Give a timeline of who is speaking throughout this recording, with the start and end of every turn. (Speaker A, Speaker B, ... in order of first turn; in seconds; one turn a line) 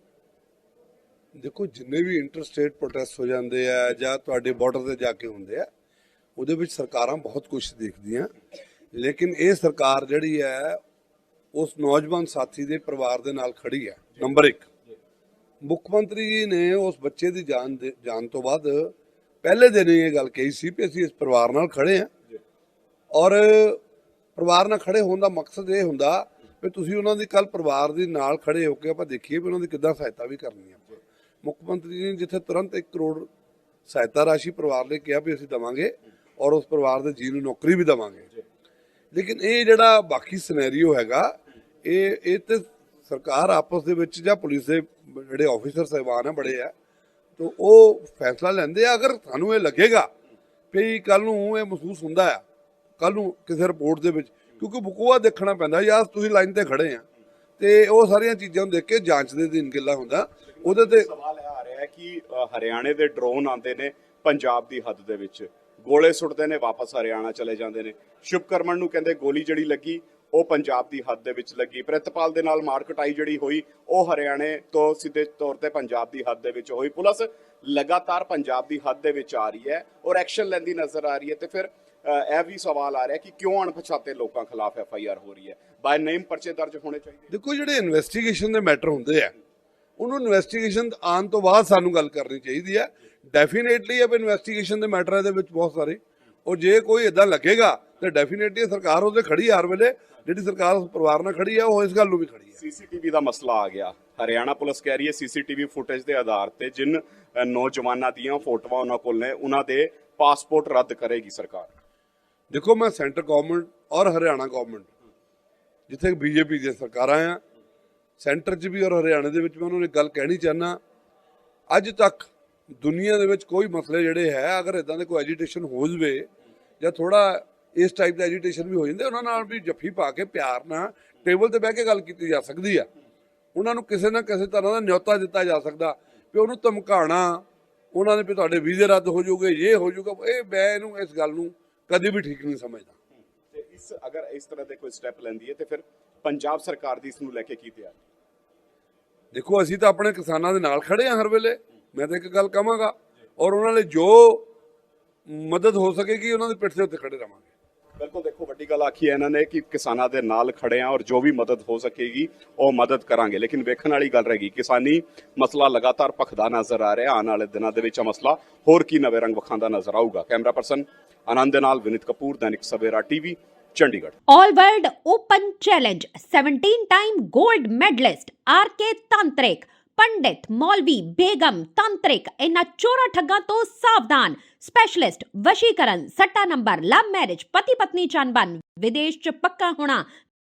Speaker A: 1.4-5.7
Speaker A: 6.4-8.3
Speaker A: 8.9-10.8
Speaker A: 11.5-14.7
Speaker A: 15.6-22.1
Speaker A: 23.1-23.8
Speaker A: 24.4-33.3
Speaker A: 33.9-38.3
Speaker A: 39.1-46.7
Speaker A: 47.4-50.1
Speaker A: 50.7-52.4
Speaker A: 53.0-57.0
Speaker A: 57.6-61.1
Speaker B: 60.6-87.3
Speaker A: 87.3-89.3
Speaker A: 90.0-102.6
Speaker B: 102.6-111.7
Speaker A: 112.5-114.9
Speaker A: 115.9-117.4
Speaker A: 118.2-120.8
Speaker A: 121.7-126.3
Speaker A: 126.8-132.9
Speaker A: 133.5-142.9
Speaker B: 143.5-147.9
Speaker A: 149.3-154.4
Speaker A: 155.3-157.5
Speaker B: 158.0-174.1
Speaker C: 174.3-190.1